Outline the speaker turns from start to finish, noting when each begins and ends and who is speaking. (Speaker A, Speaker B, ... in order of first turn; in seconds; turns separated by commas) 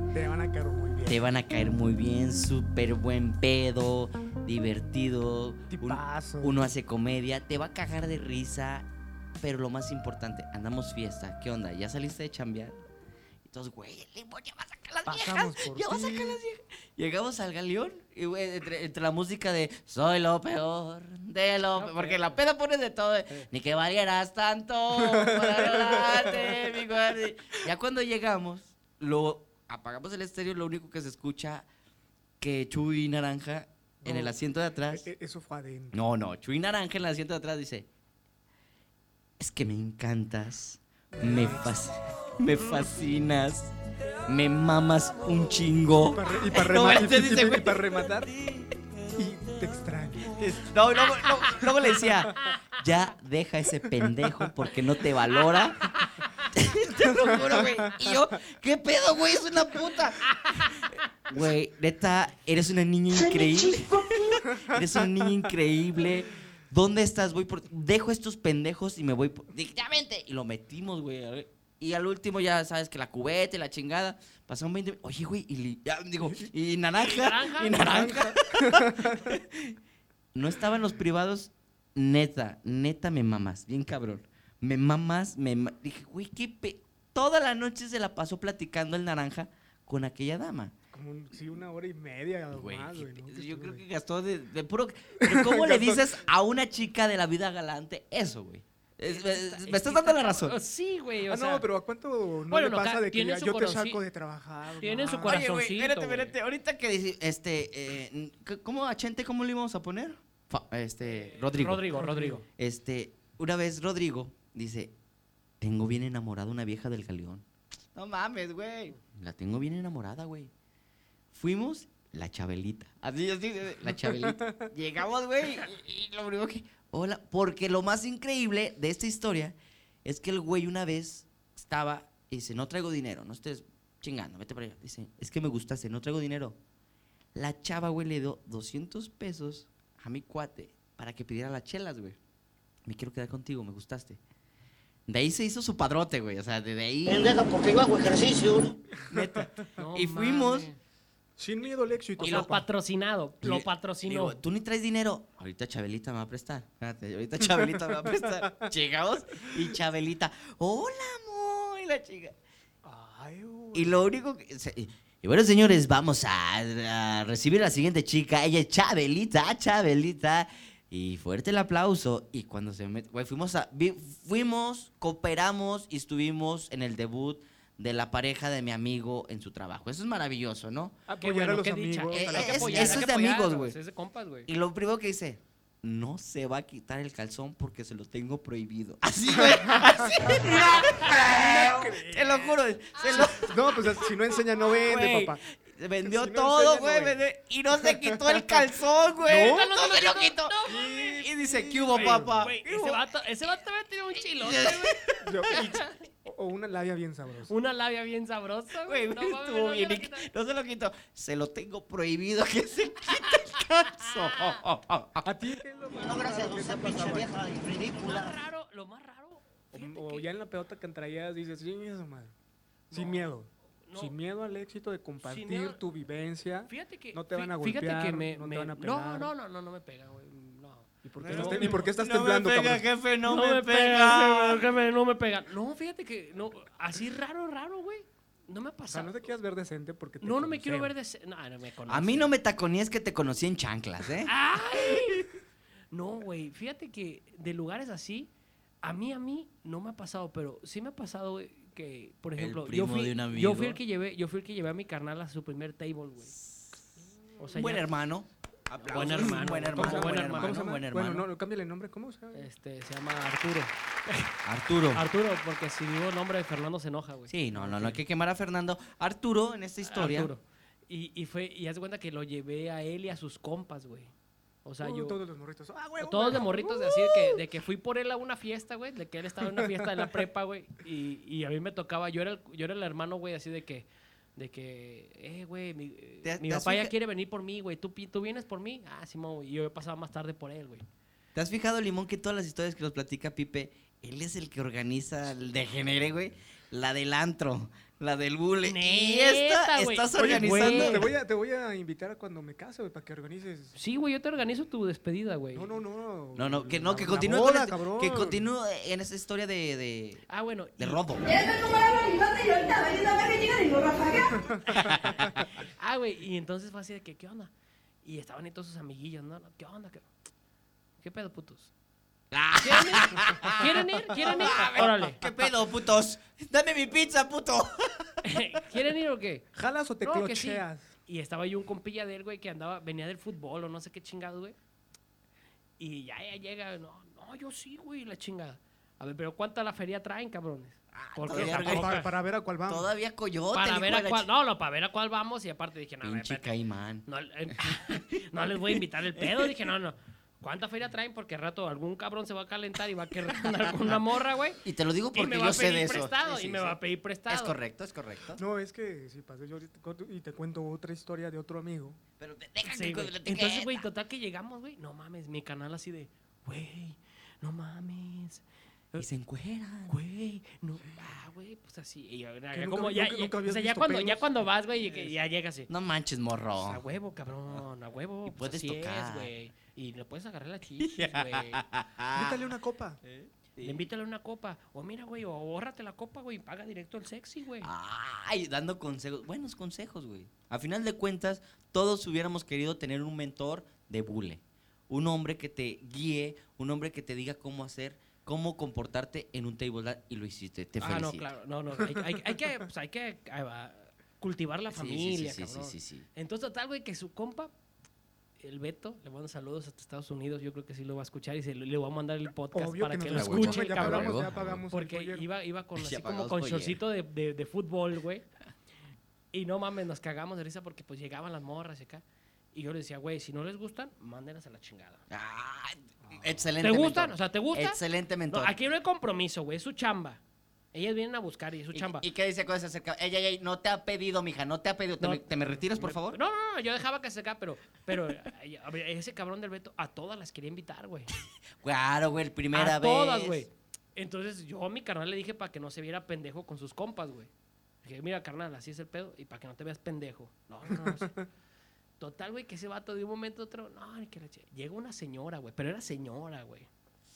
Speaker A: 0.1-1.2, Speaker B: 1.1-8.8, Speaker A: 5.7-6.7, Speaker B: 9.4-12.8, Speaker B: 13.4-31.6, Speaker A: 15.1-16.4, Speaker C: 21.8-22.3, Speaker A: 25.0-26.6, Speaker B: 32.4-35.1, Speaker A: 34.0-34.4, Speaker A: 34.9-36.0, Speaker B: 35.9-37.9, Speaker B: 39.4-43.7, Speaker A: 41.1-41.8, Speaker B: 44.3-48.7, Speaker A: 46.1-48.3, Speaker A: 49.1-50.3, Speaker B: 50.3-56.0, Speaker B: 56.5-79.8, Speaker A: 57.0-58.2, Speaker A: 64.5-64.8, Speaker C: 77.0-78.2, Speaker A: 77.8-79.4, Speaker B: 80.3-90.7, Speaker A: 90.9-93.8, Speaker B: 92.5-100.6, Speaker A: 95.2-96.2, Speaker C: 99.0-101.7, Speaker A: 101.3-105.5, Speaker C: 102.5-104.0, Speaker C: 104.8-106.3, Speaker B: 105.2-112.0, Speaker C: 111.1-112.4, Speaker A: 111.9-112.4, Speaker B: 112.6-114.9, Speaker B: 115.6-120.5, Speaker B: 121.3-136.6, Speaker A: 123.9-124.7, Speaker B: 137.3-142.2, Speaker B: 142.8-144.2, Speaker B: 145.1-147.3, Speaker D: 147.1-148.7, Speaker A: 149.0-149.4, Speaker B: 149.1-150.7, Speaker C: 149.8-150.8, Speaker A: 151.4-152.6, Speaker C: 152.2-154.4, Speaker B: 152.2-152.5, Speaker B: 153.4-162.3, Speaker A: 157.5-158.7, Speaker A: 162.8-164.1, Speaker B: 163.7-181.0, Speaker A: 181.1-183.1, Speaker C: 181.2-184.5, Speaker B: 182.1-183.8, Speaker B: 184.5-193.5, Speaker A: 189.3-192.5, Speaker A: 193.1-195.4, Speaker B: 194.8-203.0, Speaker A: 196.0-197.2, Speaker A: 197.7-198.6, Speaker A: 199.2-199.7, Speaker C: 199.3-201.0, Speaker A: 200.6-202.5, Speaker C: 201.9-205.0, Speaker B: 204.4-205.9, Speaker A: 205.2-207.5, Speaker C: 205.5-205.8, Speaker C: 207.5-210.3, Speaker B: 208.8-215.3, Speaker A: 215.2-217.4, Speaker D: 215.9-218.4, Speaker C: 217.9-220.3, Speaker A: 219.7-222.3, Speaker C: 222.9-223.3, Speaker A: 222.9-229.3, Speaker C: 223.9-224.1, Speaker C: 225.2-225.8, Speaker C: 226.7-231.8, Speaker A: 231.0-232.8, Speaker B: 231.2-234.6, Speaker C: 233.2-239.3, Speaker A: 238.9-240.9, Speaker C: 240.2-242.3, Speaker B: 241.9-245.3, Speaker C: 244.2-245.2, Speaker C: 245.9-248.3, Speaker C: 248.8-256.3, Speaker B: 252.4-253.8, Speaker C: 257.4-257.9, Speaker B: 257.5-261.3, Speaker C: 258.8-260.6, Speaker A: 258.9-262.5, Speaker C: 262.3-264.3, Speaker B: 264.4-265.0, Speaker C: 264.9-267.9, Speaker B: 267.3-270.3, Speaker A: 267.6-267.9, Speaker C: 269.8-274.1, Speaker C: 274.6-275.2, Speaker A: 274.8-277.4, Speaker C: 276.0-290.8, Speaker A: 279.4-279.9, Speaker B: 286.2-286.9, Speaker B: 291.3-301.1, Speaker C: 298.6-301.0, Speaker A: 300.1-303.8, Speaker C: 303.8-305.7, Speaker A: 305.5-308.4, Speaker B: 306.4-310.2, Speaker C: 310.3-311.1, Speaker B: 310.8-311.4, Speaker E: 311.2-314.4, Speaker C: 314.7-317.5, Speaker C: 318.0-320.1, Speaker C: 321.0-321.7, Speaker B: 322.3-328.4, Speaker C: 322.6-325.2, Speaker C: 328.2-329.4, Speaker A: 329.5-330.9, Speaker C: 330.0-334.6, Speaker C: 335.8-342.1, Speaker B: 340.9-342.1, Speaker A: 341.3-342.9, Speaker B: 342.7-344.3, Speaker C: 343.5-346.5, Speaker B: 346.0-347.1, Speaker C: 347.1-354.6, Speaker B: 348.5-349.2, Speaker B: 354.6-356.8, Speaker C: 355.1-357.5, Speaker B: 357.3-358.4, Speaker A: 358.4-362.0, Speaker B: 362.2-363.9, Speaker C: 362.6-368.4, Speaker B: 368.9-370.0, Speaker C: 369.9-375.7, Speaker A: 372.5-374.5, Speaker B: 375.7-376.8, Speaker C: 376.6-381.6, Speaker B: 378.2-379.3, Speaker B: 380.8-382.4, Speaker A: 382.1-383.0, Speaker B: 383.0-383.9, Speaker C: 383.6-387.7, Speaker B: 387.6-401.3, Speaker C: 400.8-407.5, Speaker A: 401.9-402.2, Speaker B: 404.7-406.1, Speaker C: 408.4-418.2, Speaker A: 412.5-415.3, Speaker B: 413.1-414.6, Speaker B: 415.8-416.8, Speaker C: 419.3-425.0, Speaker B: 425.1-428.6, Speaker C: 426.6-430.2, Speaker C: 430.7-432.1, Speaker B: 431.7-436.2, Speaker C: 435.0-441.1, Speaker B: 441.6-443.5, Speaker C: 442.5-447.3, Speaker C: 447.8-451.2, Speaker A: 450.7-451.2, Speaker C: 452.0-456.7